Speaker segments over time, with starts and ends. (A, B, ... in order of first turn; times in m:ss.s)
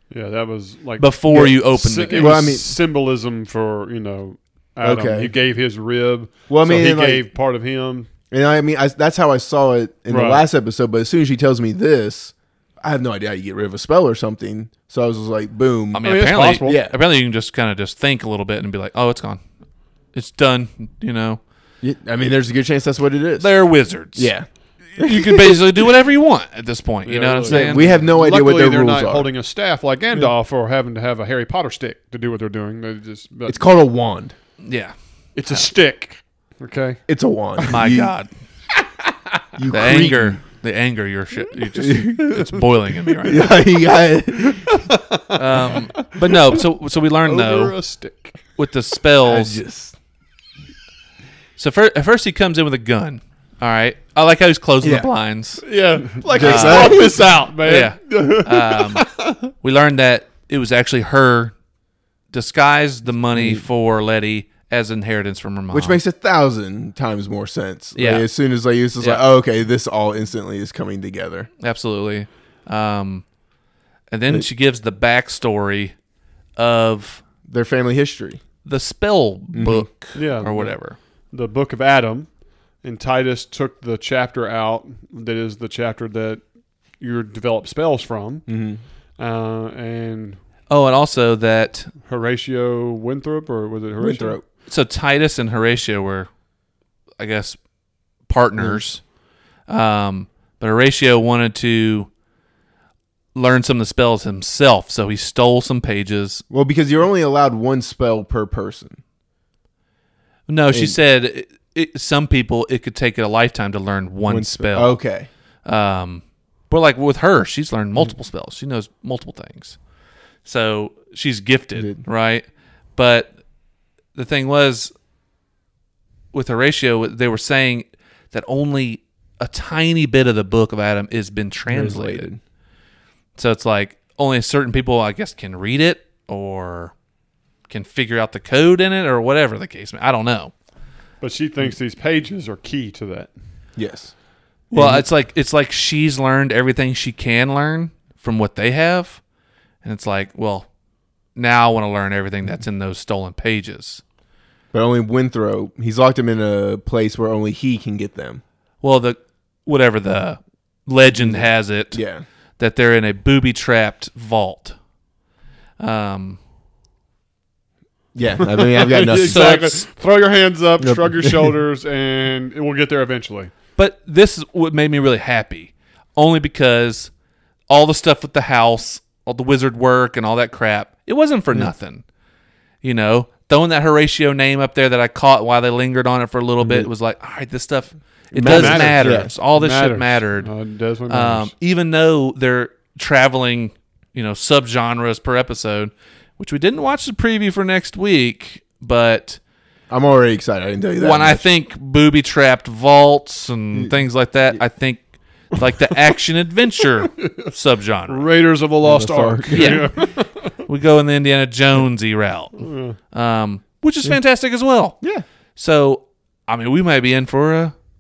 0:00.1-0:08.1 A
0:01.0-0:02.4 B
0:01.3-0:01.6 C
0:02.1-0:02.7 C
0:04.8-0:05.3 C
0:06.5-0:07.2 C
0:08.3-0:16.0 C
0:10.1-0:10.4 A
0:15.9-0:19.4 B
0:16.0-0:16.8 A
0:16.6-0:17.0 C
0:20.1-0:21.4 B
0:21.8-0:23.5 C
0:23.4-0:24.3 B
0:24.1-0:24.5 C
0:24.9-0:27.9 B
0:25.0-0:25.6 C
0:27.0-0:33.6 A
0:27.5-0:29.3 C
0:33.5-0:34.4 C
0:34.6-0:34.9 B
0:35.4-0:37.0 A
0:37.1-0:38.1 C
0:37.7-0:38.3 B
0:39.6-0:40.4 C
0:39.7-0:43.6 B
0:41.8-0:42.4 C
0:43.2-0:44.8 C
0:44.7-0:46.6 A
0:45.3-0:47.8 B
0:47.2-0:48.4 A
0:48.6-0:49.6 B
0:49.2-0:50.0 C
0:51.6-0:55.6 B
0:54.8-0:55.1 C
0:55.6-0:59.5 A
0:56.2-0:57.2 C
0:56.4-1:01.5 B
1:02.3-1:06.0 B
1:03.3-1:03.6 C
1:05.7-1:11.5 C
1:08.0-1:08.3 B
1:11.6-1:13.2 B
1:14.1-1:16.0 B
1:16.6-1:17.2 B
1:17.5-1:18.4 C
1:18.6-1:21.0 B
1:19.5-1:19.9 C
1:20.1-1:20.8 A
1:21.3-1:22.3 A
1:22.8-1:26.4 A
1:27.0-1:28.5 A
1:28.5-1:28.8 C
1:29.2-1:30.4 A
1:30.7-1:31.9 B
1:32.0-1:34.4 A
1:34.0-1:34.4 C
1:34.7-1:36.3 B
1:37.2-1:37.6 B
1:38.3-1:39.0 B
1:39.7-1:42.1 B
1:43.4-1:46.4 B
1:46.5-1:49.0 C
1:50.5-1:55.0 B
1:54.3-1:55.3 C
1:55.6-1:59.8 B
2:00.4-2:02.4 B
2:01.8-2:02.0 C
2:03.0-2:03.3 B
2:04.2-2:04.9 B
2:06.3-2:12.3 B
2:11.7-2:12.4 C
2:13.4-2:16.9 B
2:17.7-2:20.5 B
2:21.2-2:23.3 A
2:23.8-2:24.1 C
2:24.7-2:29.2 B
2:24.7-2:25.0 C
2:29.8-2:30.7 B
2:31.4-2:34.0 B
2:34.7-2:38.4 C
2:38.8-2:42.0 B
2:41.2-2:42.2 C
2:42.6-2:44.8 B
2:45.8-2:46.4 B
2:48.2-2:49.5 C
2:48.5-2:53.5 A
2:49.2-2:49.8 B
2:50.8-2:51.5 C
2:53.8-2:57.1 B
2:57.7-3:02.0 B
3:02.8-3:10.5 B
3:06.6-3:06.9 C
3:08.3-3:09.3 C
3:08.4-3:11.5 A
3:11.1-3:19.4 B
3:19.9-3:21.4 C
3:21.0-3:28.3 B
3:23.7-3:24.6 C
3:27.2-3:27.5 A
3:28.1-3:30.6 A
3:28.8-3:29.9 C
3:29.5-3:35.0 B
3:32.6-3:33.0 A
3:35.6-3:37.8 B